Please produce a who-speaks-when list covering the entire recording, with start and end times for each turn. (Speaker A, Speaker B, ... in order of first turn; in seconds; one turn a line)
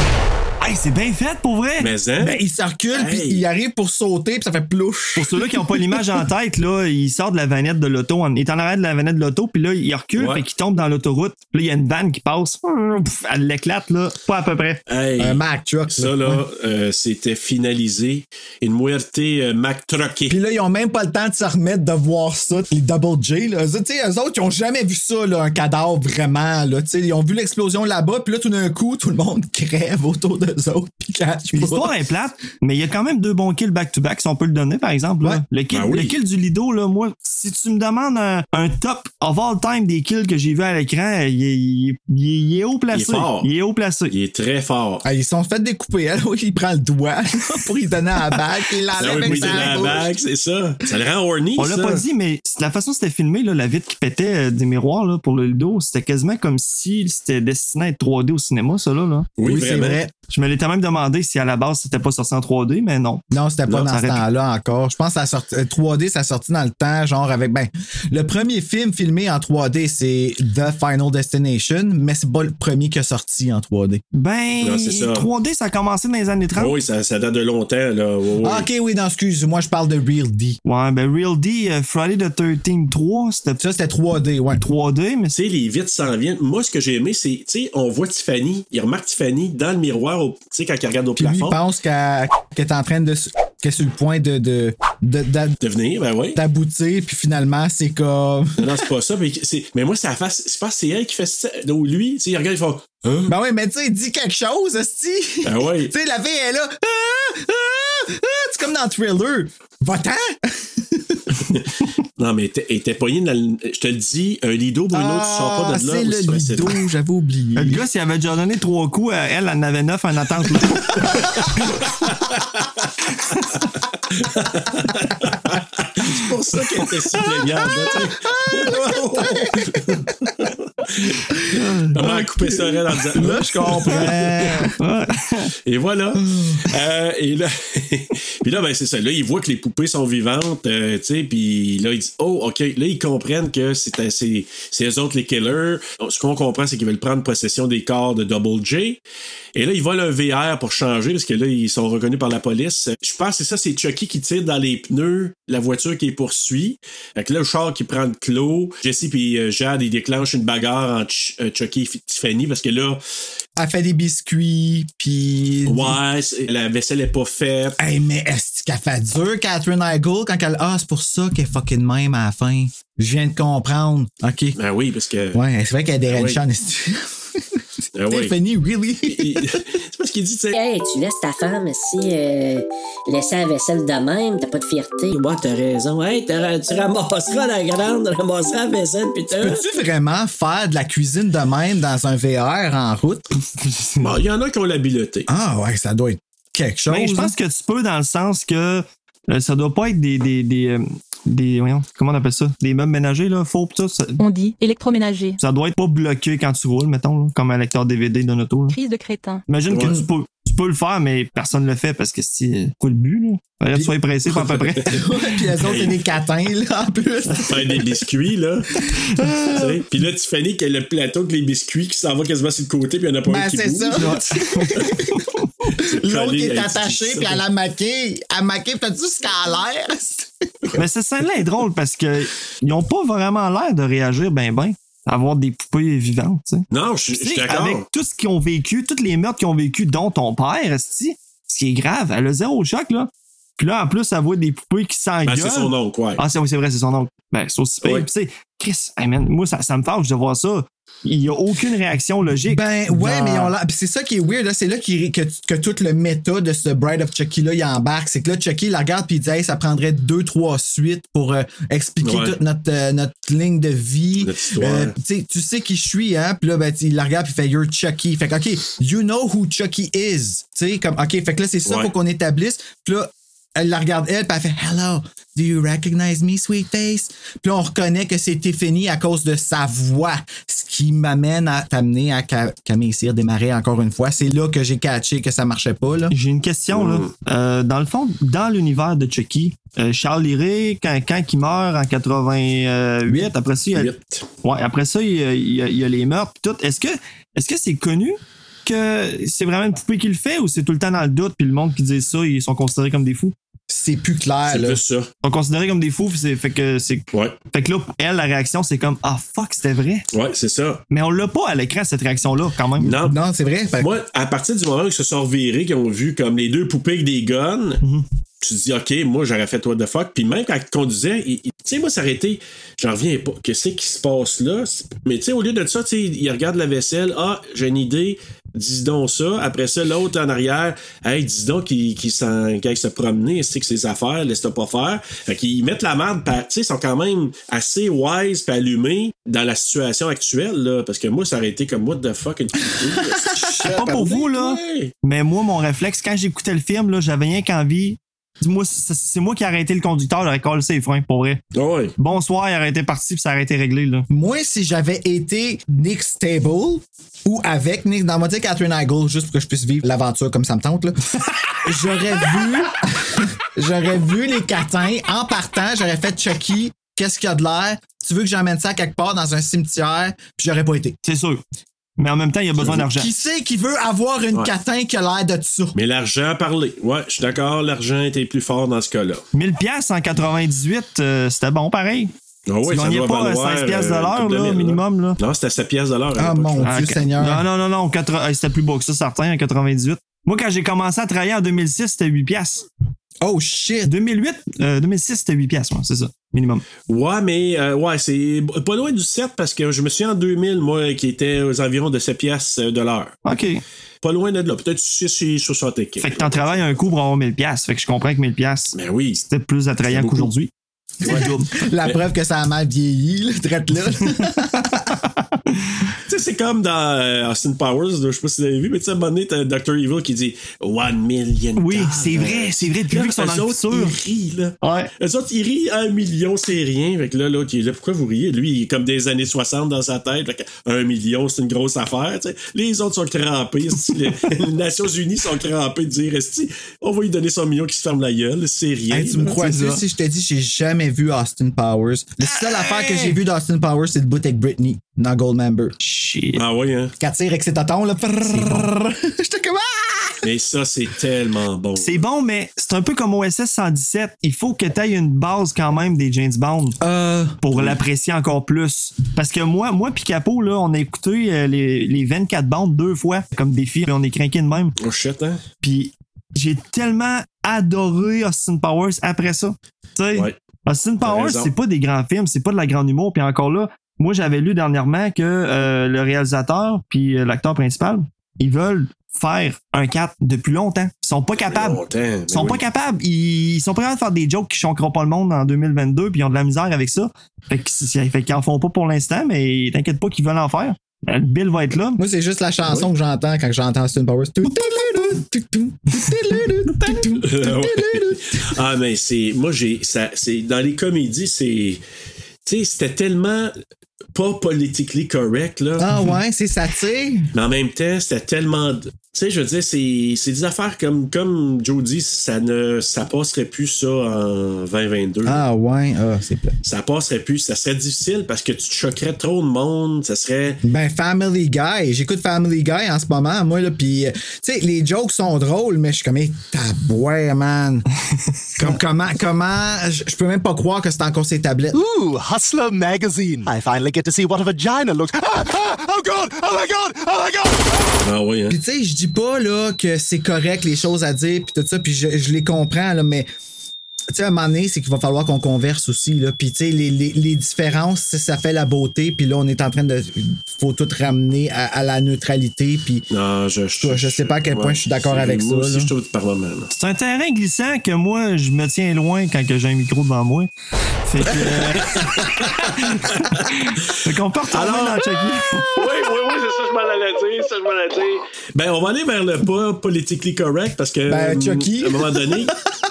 Speaker A: 0.6-1.9
Speaker B: 1.8-2.4
Speaker C: 2.2-5.4
Speaker B: 2.9-3.4
Speaker A: 5.2-14.8
Speaker B: 10.2-10.4
Speaker B: 14.9-20.4
Speaker C: 15.2-16.4
Speaker C: 20.3-31.9
Speaker A: 31.5-44.1
Speaker B: 35.7-36.1
Speaker B: 42.9-43.5
Speaker B: 44.1-45.0
Speaker C: 45.0-50.1
Speaker B: 49.0-52.0
Speaker A: 49.3-49.6
Speaker A: 51.6-59.3
Speaker B: 59.4-60.0
Speaker C: 59.4-60.1
Speaker A: 60.3-64.2
Speaker C: 63.3-74.0
Speaker A: 74.2-76.8
Speaker B: 74.6-75.3
Speaker B: 76.6-78.7
Speaker C: 78.4-80.6
Speaker A: 80.7-83.6
Speaker C: 83.6-84.6
Speaker A: 84.6-85.3
Speaker B: 85.3-91.6
Speaker C: 91.2-95.6
Speaker B: 95.6-96.4
Speaker C: 96.3-98.7
Speaker B: 98.6-103.3
Speaker C: 103.3-111.2
Speaker B: 105.4-105.9
Speaker B: 112.2-116.8
Speaker C: 114.9-117.8
Speaker A: 117.6-121.0
Speaker B: 121.8-122.7
Speaker B: 124.2-131.3
Speaker C: 127.9-129.7
Speaker A: 131.5-132.0
Speaker B: 131.9-134.6
Speaker C: 132.0-134.7
Speaker A: 133.9-135.5
Speaker B: 135.7-149.0
Speaker C: 136.2-136.7
Speaker B: 149.6-163.0
Speaker C: 163.6-166.0
Speaker B: 165.7-167.8
Speaker C: 167.8-174.6
Speaker B: 174.6-175.4
Speaker C: 175.3-179.6
Speaker B: 176.1-176.4
Speaker B: 177.9-178.3
Speaker B: 179.1-180.6
Speaker D: 180.6-189.6
Speaker C: 189.4-193.3
Speaker A: 193.6-194.1
Speaker B: 194.0-195.3
Speaker C: 195.3-197.3
Speaker A: 196.9-204.2
Speaker E: 204.2-205.4
Speaker A: 205.4-208.8
Speaker E: 208.7-209.4
Speaker A: 209.5-214.9
Speaker C: 209.8-210.1
Speaker B: 214.3-214.9
Speaker C: 214.9-217.9
Speaker B: 215.6-216.0
Speaker B: 217.5-218.7
Speaker A: 219.1-219.6
Speaker B: 219.5-224.2
Speaker C: 223.3-225.0
Speaker A: 224.0-225.5
Speaker B: 225.7-227.4
Speaker C: 225.9-230.3
Speaker A: 230.8-253.5
Speaker B: 236.7-237.8
Speaker B: 245.2-246.2
Speaker C: 252.5-286.1
Speaker B: 262.0-262.4
Speaker B: 264.2-264.9
Speaker B: 271.7-271.9
Speaker A: 286.1-293.9
Speaker B: 286.7-287.1
Speaker B: 293.8-294.2
Speaker A: 294.4-303.4
Speaker C: 303.7-304.8
Speaker B: 304.5-305.1
Speaker A: 305.2-310.1
Speaker B: 310.1-310.8
Speaker A: 310.9-312.9
Speaker B: 312.8-313.1
Speaker C: 313.0-313.9
Speaker B: 313.8-317.8
Speaker B: 318.4-344.9
Speaker C: 343.1-343.5
Speaker A: 343.4-351.4
Speaker B: 351.5-351.9
Speaker A: 352.0-354.1
Speaker C: 354.1-361.0
Speaker C: 361.6-371.0
Speaker A: 371.0-371.4
Speaker A: 372.0-373.1
Speaker C: 372.8-375.8
Speaker B: 375.8-379.2
Speaker A: 379.3-382.1
Speaker B: 382.5-386.8
Speaker A: 382.7-385.2
Speaker C: 386.2-387.4
Speaker A: 386.6-392.7
Speaker C: 393.2-393.9
Speaker A: 393.9-396.6
Speaker B: 396.9-403.2
Speaker A: 403.2-403.6
Speaker B: 404.0-406.9
Speaker A: 406.0-410.5
Speaker B: 408.7-409.2
Speaker B: 409.9-410.3
Speaker B: 411.0-411.3
Speaker A: 411.0-411.5
Speaker C: 411.1-414.9
Speaker A: 415.2-415.9
Speaker B: 416.1-439.6
Speaker A: 421.6-423.9
Speaker A: 424.6-424.9
Speaker C: 438.9-445.7
Speaker A: 439.4-439.8
Speaker A: 442.3-443.2
Speaker A: 445.8-446.4
Speaker B: 446.4-446.9
Speaker C: 447.0-450.2
Speaker B: 450.2-452.0
Speaker A: 451.8-456.8
Speaker C: 456.8-457.4
Speaker A: 457.4-464.8
Speaker B: 457.5-457.8
Speaker B: 464.8-465.4
Speaker A: 465.6-492.0
Speaker B: 471.0-471.5
Speaker B: 481.4-482.6
Speaker C: 492.0-498.4
Speaker B: 497.1-501.8
Speaker B: 502.5-503.5
Speaker B: 504.1-505.9
Speaker C: 505.8-507.3
Speaker B: 507.3-515.4
Speaker C: 515.2-516.6
Speaker B: 516.6-520.6
Speaker C: 520.6-527.9
Speaker C: 528.6-531.8
Speaker F: 531.7-538.0
Speaker B: 538.0-538.6
Speaker C: 538.5-543.3
Speaker C: 544.1-553.0
Speaker B: 553.1-556.7
Speaker C: 553.8-555.9
Speaker A: 556.8-560.5
Speaker A: 561.1-565.8
Speaker B: 561.8-563.4
Speaker B: 564.5-565.0
Speaker B: 565.8-572.5
Speaker C: 571.1-572.5